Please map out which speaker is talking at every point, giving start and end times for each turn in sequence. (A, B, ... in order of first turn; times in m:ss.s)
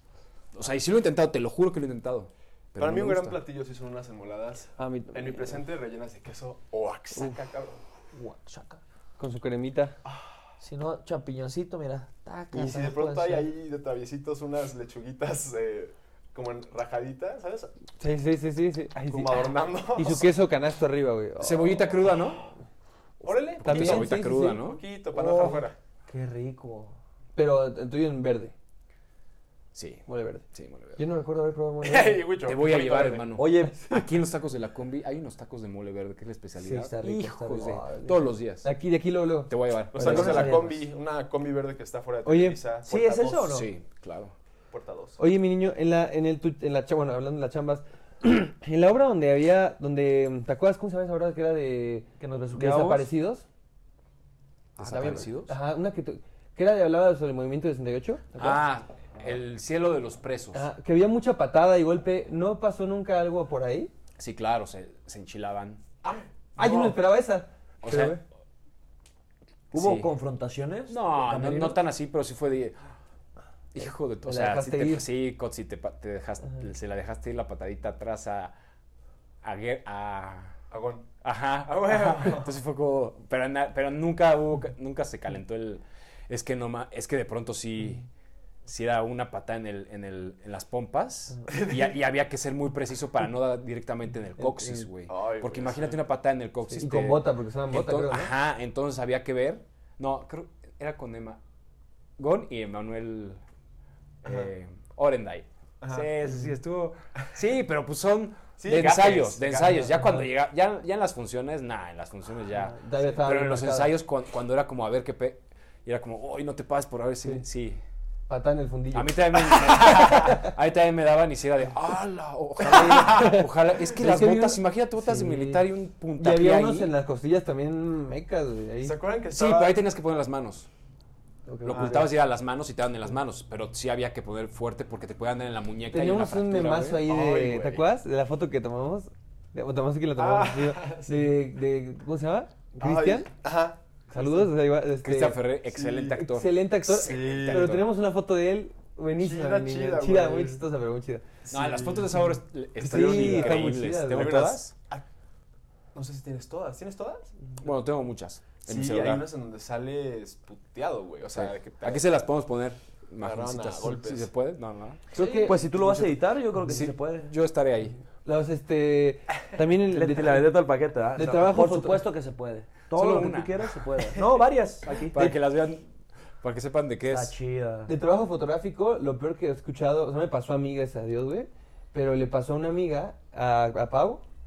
0:00.5-0:03.4 A
0:02.8-0:07.8 B
0:04.8-0:05.6 C
0:08.1-0:08.8 D
0:09.2-0:10.0 C
0:10.0-0:10.3 B
0:10.6-0:13.5 D
0:12.5-0:17.8 B
0:18.0-0:19.4 C
0:19.1-0:20.3 B
0:20.0-0:21.9 C
0:21.4-0:22.4 A
0:23.2-0:25.8 B
0:23.5-0:24.8 A
0:23.6-0:24.6 C
0:25.1-0:27.0 D
0:27.4-0:28.5 C
0:29.7-0:31.0 A
0:30.1-0:30.4 C
0:31.0-0:32.2 C
0:31.8-0:33.4 B
0:32.4-0:38.7 A
0:33.4-0:34.0 D
0:36.6-0:37.8 D
0:37.5-0:40.5 C
0:39.5-0:40.6 A
0:39.9-0:43.6 B
0:40.0-0:40.8 D
0:42.2-0:42.6 C
0:42.9-0:43.7 D
0:43.5-0:44.3 A
0:44.7-0:45.2 B
0:45.2-0:53.4 C
0:52.2-0:53.1 D
0:54.8-0:55.6 A
0:54.8-0:58.6 C
0:58.4-1:00.6 A
1:00.5-1:03.9 C
1:04.2-1:05.8 A
1:06.0-1:07.0 B
1:06.6-1:08.2 C
1:07.8-1:08.2 A
1:09.7-1:11.8 D
1:09.7-1:10.1 A
1:10.9-1:12.8 A
1:13.7-1:18.5 A
1:14.2-1:15.0 C
1:19.4-1:20.6 A
1:20.7-1:21.1 B
1:21.2-1:28.1 A
1:21.6-1:22.5 B
1:28.7-1:41.4 A
1:34.4-1:34.8 C
1:35.1-1:36.0 B
1:36.8-1:38.3 C
1:42.2-1:43.4 A
1:44.2-1:57.8 A
1:45.8-1:46.1 B
1:48.6-1:49.9 B
1:49.9-1:50.2 C
1:52.6-1:53.9 C
1:58.3-1:59.6 C
1:58.9-2:06.9 A
2:00.1-2:00.4 C
2:02.7-2:05.6 C
2:02.8-2:03.3 B
2:06.2-2:09.0 C
2:08.8-2:09.8 B
2:09.3-2:10.7 A
2:11.5-2:12.1 C
2:11.6-2:17.0 A
2:11.7-2:12.0 B
2:15.9-2:23.3 C
2:17.0-2:17.9 B
2:20.2-2:21.4 B
2:22.8-2:24.5 B
2:24.1-2:25.4 C
2:25.0-2:27.9 A
2:25.7-2:26.2 B
2:26.1-2:31.2 C
2:26.9-2:27.8 B
2:29.2-2:30.6 B
2:31.5-2:35.0 B
2:31.5-2:34.7 A
2:32.8-2:34.6 C
2:35.9-2:37.3 B
2:37.6-2:39.3 A
2:38.6-2:42.0 B
2:41.3-2:48.0 A
2:43.2-2:44.3 B
2:45.1-2:45.6 C
2:45.2-2:45.5 B
2:45.2-2:47.3 D
2:48.2-2:50.5 C
2:49.9-2:55.3 D
2:51.2-2:52.0 C
2:52.9-2:53.7 A
2:55.1-2:55.9 A
2:56.4-2:57.3 A
2:57.0-2:57.9 D
2:57.9-3:04.2 C